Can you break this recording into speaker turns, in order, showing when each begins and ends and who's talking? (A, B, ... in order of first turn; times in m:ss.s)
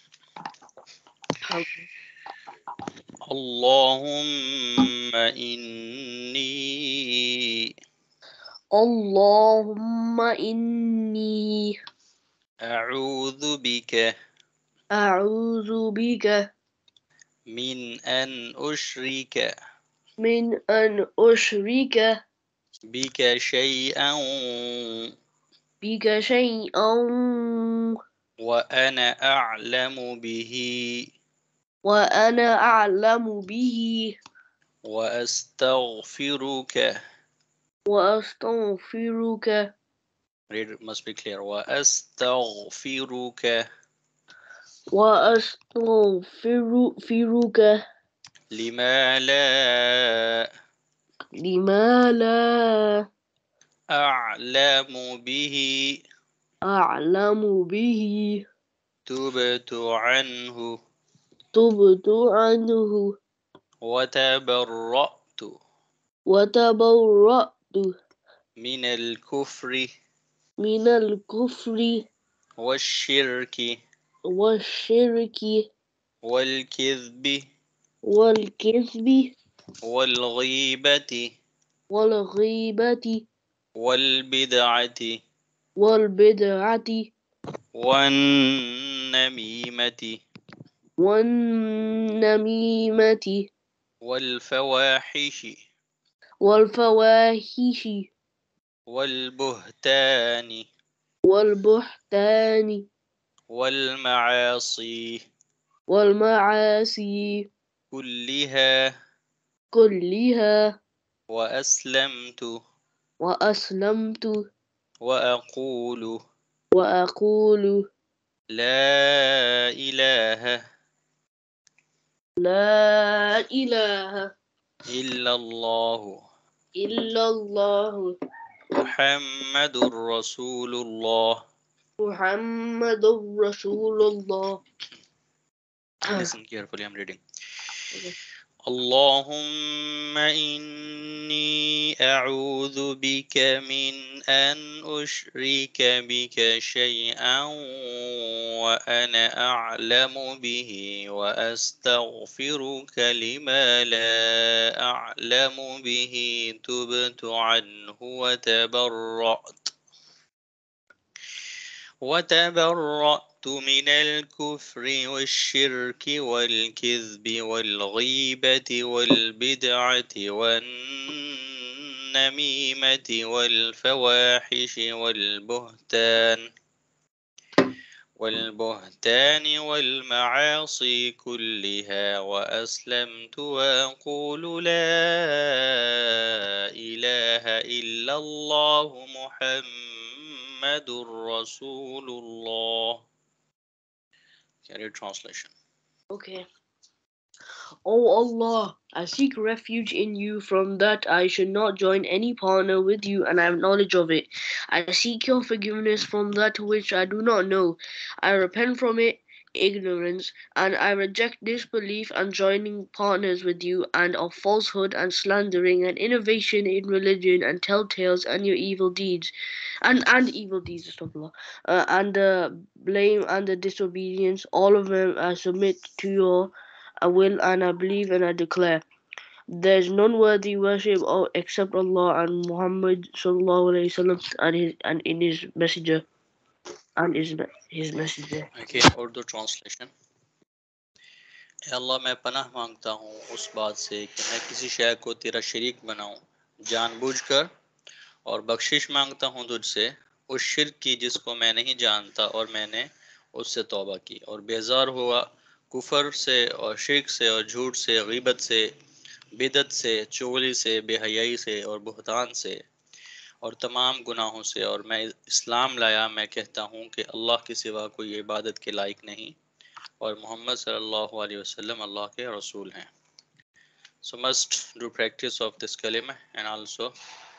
0:01.5-0:01.8 A
0:03.3-0:07.1 B
0:08.7-0:11.7 A
0:12.6-0:14.1 B
0:14.9-0:16.4 A
0:17.5-0:19.5 B
0:20.2-0:22.1 A
0:22.9-0:25.1 B
0:25.8-0:28.0 A
0:28.4-0:31.0 B
0:31.8-0:34.2 A
0:34.8-0:37.0 B
0:37.9-0:39.7 A
0:40.5-0:43.6 B
0:44.9-0:47.8 A
0:48.5-0:50.4 B
0:51.4-0:53.0 A
0:53.9-0:55.9 B
0:56.7-0:58.4 A
0:59.1-1:00.7 B
1:01.5-1:03.1 A
1:03.8-1:05.5 B
1:06.3-1:07.9 A
1:08.6-1:09.9 B
1:10.6-1:12.0 A
1:12.6-1:13.8 B
1:14.3-1:15.6 A
1:16.2-1:17.4 B
1:18.0-1:19.3 A
1:19.8-1:21.3 B
1:21.9-1:23.2 A
1:23.8-1:25.2 B
1:25.8-1:27.1 A
1:27.7-1:30.2 B
1:31.0-1:33.5 A
1:34.0-1:35.6 B
1:36.4-1:38.1 A
1:38.9-1:40.7 B
1:41.2-1:42.8 A
1:43.5-1:45.2 B
1:45.9-1:47.4 A
1:47.9-1:48.7 B
1:49.7-1:50.6 A
1:51.3-1:52.5 B
1:53.2-1:54.4 A
1:55.0-1:56.2 B
1:56.7-1:57.8 A
1:58.5-2:00.6 B
2:02.4-2:04.3 A
2:04.9-2:06.2 B
2:06.8-2:08.1 A
2:08.8-2:11.4 B
2:12.0-2:14.6 A
2:16.0-2:17.2 B
2:18.7-2:19.5 B
2:20.2-2:39.7 B
2:42.0-2:51.4 B
2:52.2-2:56.4 B
2:58.2-3:05.8 B
3:06.8-3:13.0 B
3:14.6-3:15.5 B
3:16.1-3:16.4 A
3:17.8-3:39.3 A
3:39.8-3:48.8 A
3:49.5-3:56.0 A
3:57.0-3:58.5 A
3:58.5-3:59.9 B
4:01.7-4:07.5 B
4:08.2-4:18.6 B
4:19.4-4:22.6 B
4:23.4-4:29.3 B
4:30.0-4:32.9 B
4:34.0-4:36.9 B